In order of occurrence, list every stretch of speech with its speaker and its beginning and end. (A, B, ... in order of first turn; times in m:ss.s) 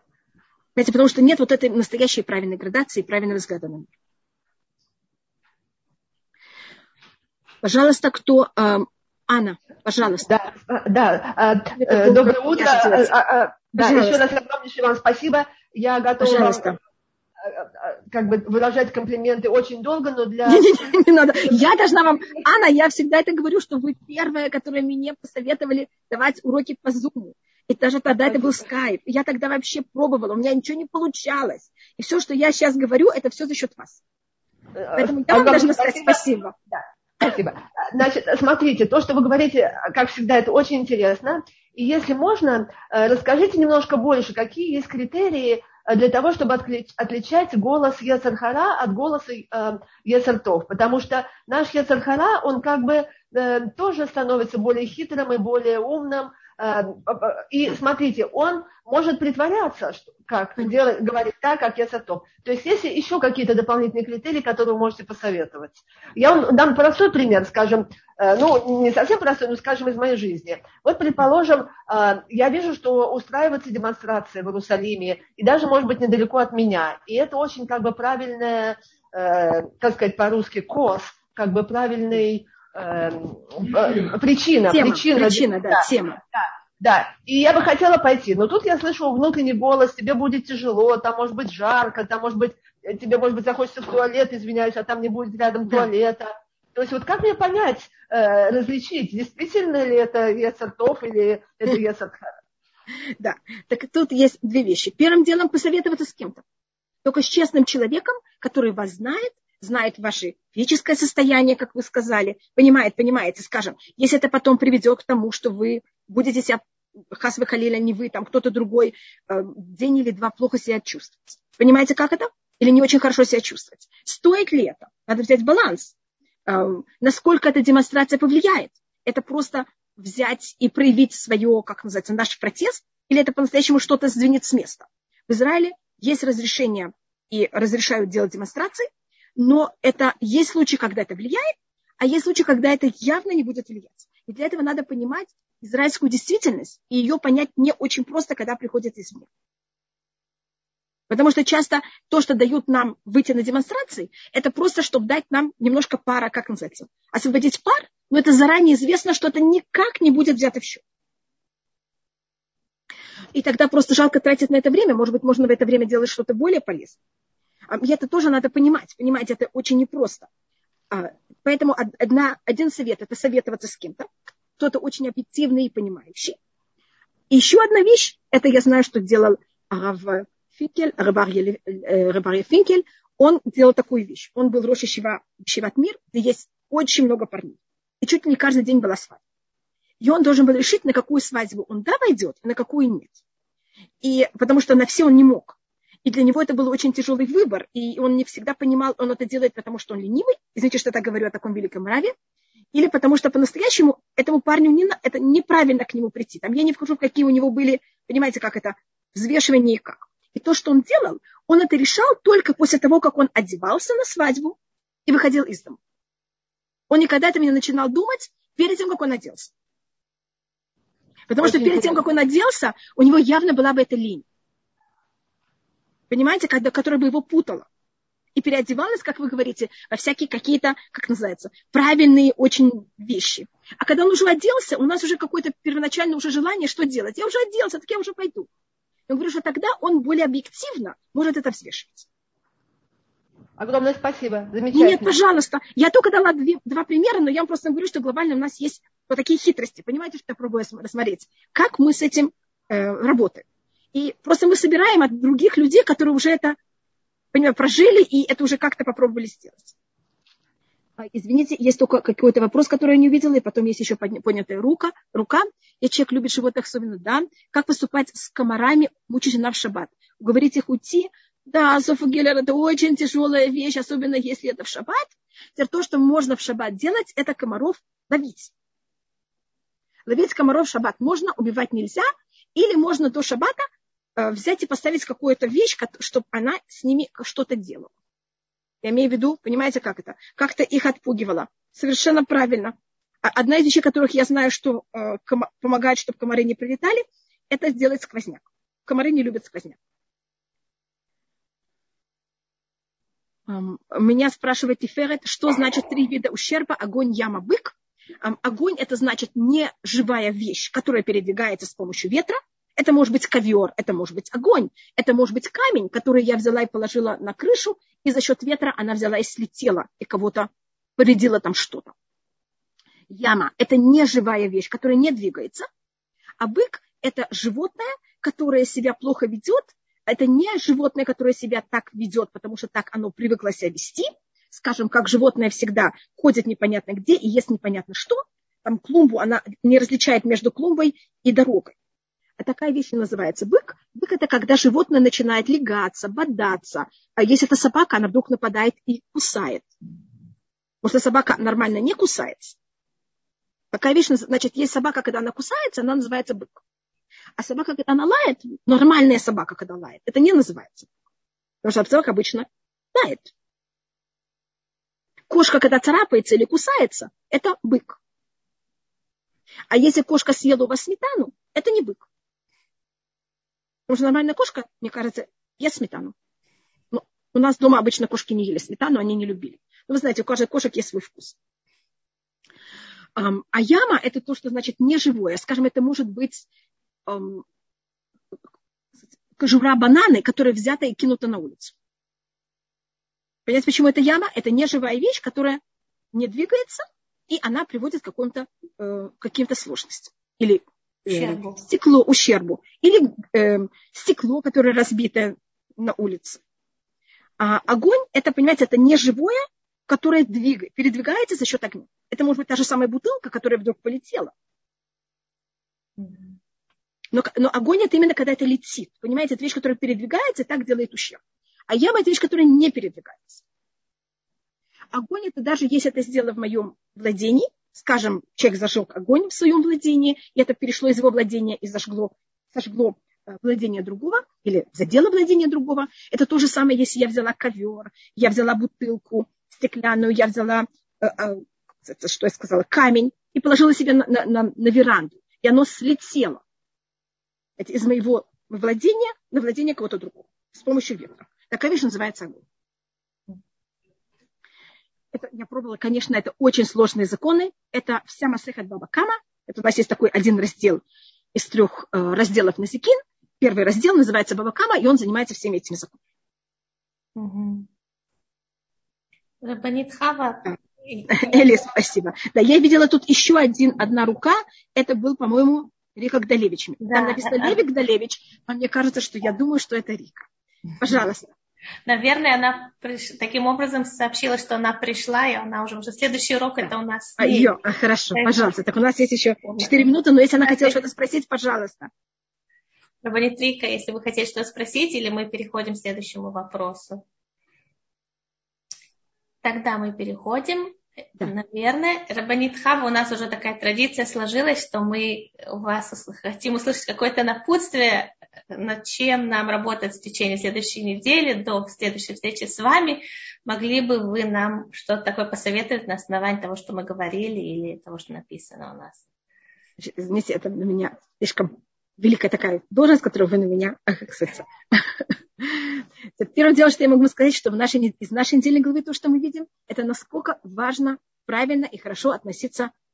0:00.8-0:03.9 A
0:07.6-0:10.3 A
0:10.2-0:16.8 B
0:11.7-0:13.1 A
0:13.7-0:14.2 A
0:16.2-0:16.8 A
0:17.4-0:20.7 B
0:20.4-0:34.0 A
0:28.3-0:28.5 B
0:34.8-1:42.2 B
0:35.0-0:36.5 A
1:24.7-1:26.2 A
1:43.2-1:46.4 A
1:47.0-1:56.6 A
1:57.1-2:05.9 A
2:06.4-2:29.3 A
2:31.1-2:40.8 A
2:43.3-2:47.0 A
2:47.7-2:50.3 A
2:50.9-2:56.4 A
2:57.3-3:09.2 A
3:10.0-3:13.2 A
3:14.0-3:22.1 A
3:22.7-3:35.8 A
3:36.9-3:39.5 A
3:41.3-3:44.2 A
3:46.1-3:47.7 A
3:48.4-3:58.5 A
3:59.1-4:02.0 A
4:03.6-4:05.2 B
4:04.7-4:16.6 A
4:17.3-4:19.7 A
4:21.0-4:38.5 A
4:40.0-4:43.6 A
4:44.2-4:47.9 A
4:48.8-4:59.8 A
5:03.5-5:21.9 A
5:23.1-5:25.6 A
5:26.4-5:41.7 A
5:42.4-5:49.7 A
5:50.8-5:52.6 A
5:53.7-5:56.6 A
5:57.4-6:00.9 A
6:01.6-6:03.3 A
6:05.3-6:08.0 A
6:09.7-6:12.0 A
6:13.9-6:16.1 A
6:16.9-6:21.4 A
6:23.2-6:26.4 A
6:27.1-6:27.4 A
6:29.0-6:31.7 A
6:33.4-6:35.6 A
6:36.1-6:46.4 A
6:41.1-6:41.6 C
6:47.4-6:54.3 A
6:56.0-6:56.4 C
6:57.1-7:03.4 A
7:04.9-7:26.4 A
7:27.6-7:32.4 A
7:35.1-7:40.8 A
7:41.3-7:46.0 A
7:47.2-7:47.7 C
7:49.4-7:51.3 C
7:51.1-8:00.2 A
7:56.8-7:57.6 C
8:00.8-8:01.3 A
8:01.9-8:07.5 C
8:07.2-8:11.9 A
8:08.1-8:08.5 C
8:09.5-8:10.8 C
8:13.0-8:17.0 C
8:19.4-8:39.0 C
8:39.8-8:52.7 A